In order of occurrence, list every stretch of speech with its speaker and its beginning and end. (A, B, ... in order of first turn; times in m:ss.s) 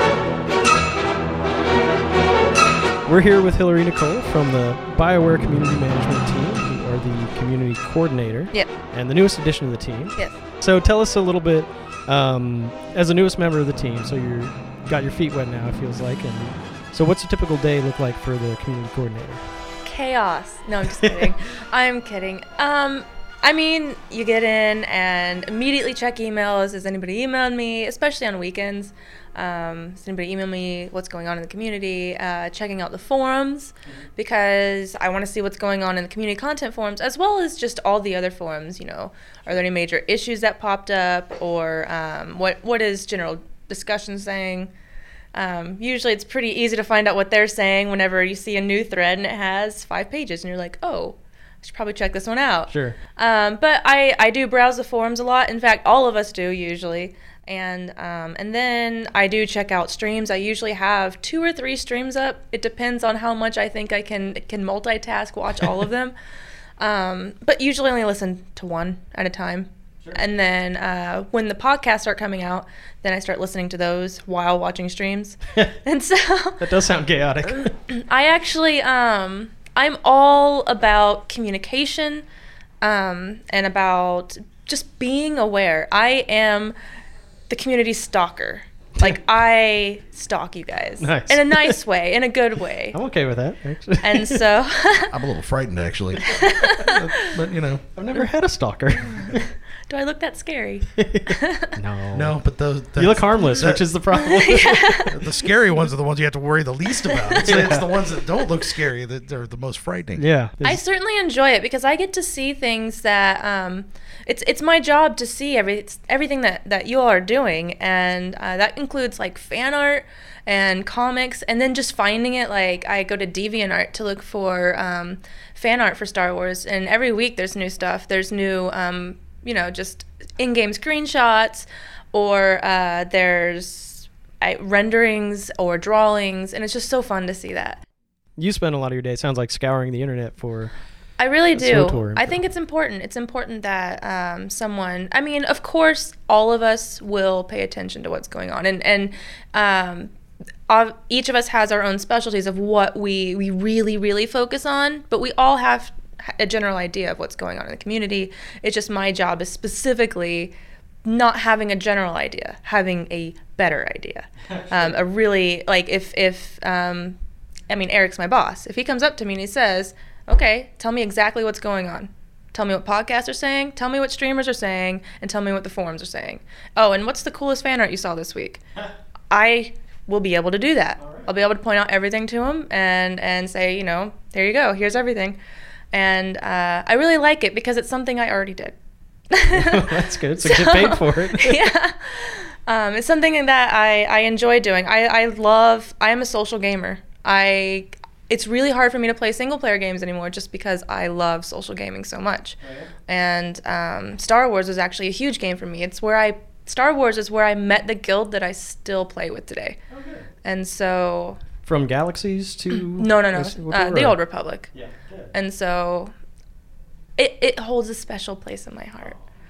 0:03.0-0:19.4 A
0:19.8-0:44.7 B
0:21.0-0:21.3 A
0:45.3-1:06.1 B
0:52.7-0:53.0 A
1:06.8-1:16.6 B
1:16.6-1:17.7 A
1:17.5-1:22.2 B
1:22.8-1:26.7 B
1:27.5-1:33.0 B
1:31.0-1:31.8 A
1:32.9-1:34.4 A
1:34.0-1:35.2 B
1:35.1-1:37.8 C
1:36.2-1:37.3 B
1:38.0-1:39.4 A
1:39.9-1:41.8 B
1:41.0-1:42.4 A
1:42.1-1:43.8 C
1:43.0-1:45.1 A
1:44.2-1:45.1 B
1:45.1-1:50.2 C
1:47.1-1:47.6 B
1:47.4-1:48.0 A
1:50.2-1:50.8 A
1:50.6-2:17.8 B
2:18.4-2:20.7 A
2:21.2-2:30.1 B
2:21.6-2:22.4 A
2:30.7-2:40.5 B
2:41.0-2:47.2 B
2:47.7-2:58.6 B
2:59.3-3:05.4 B
3:05.9-3:08.7 B
3:09.3-3:29.8 B
3:09.5-3:11.6 A
3:22.6-3:22.9 A
3:29.9-3:30.2 A
3:30.4-3:31.4 B
3:31.6-3:34.2 A
3:32.8-3:34.7 B
3:34.7-3:35.3 A
3:35.3-3:36.1 B
3:37.2-3:39.2 B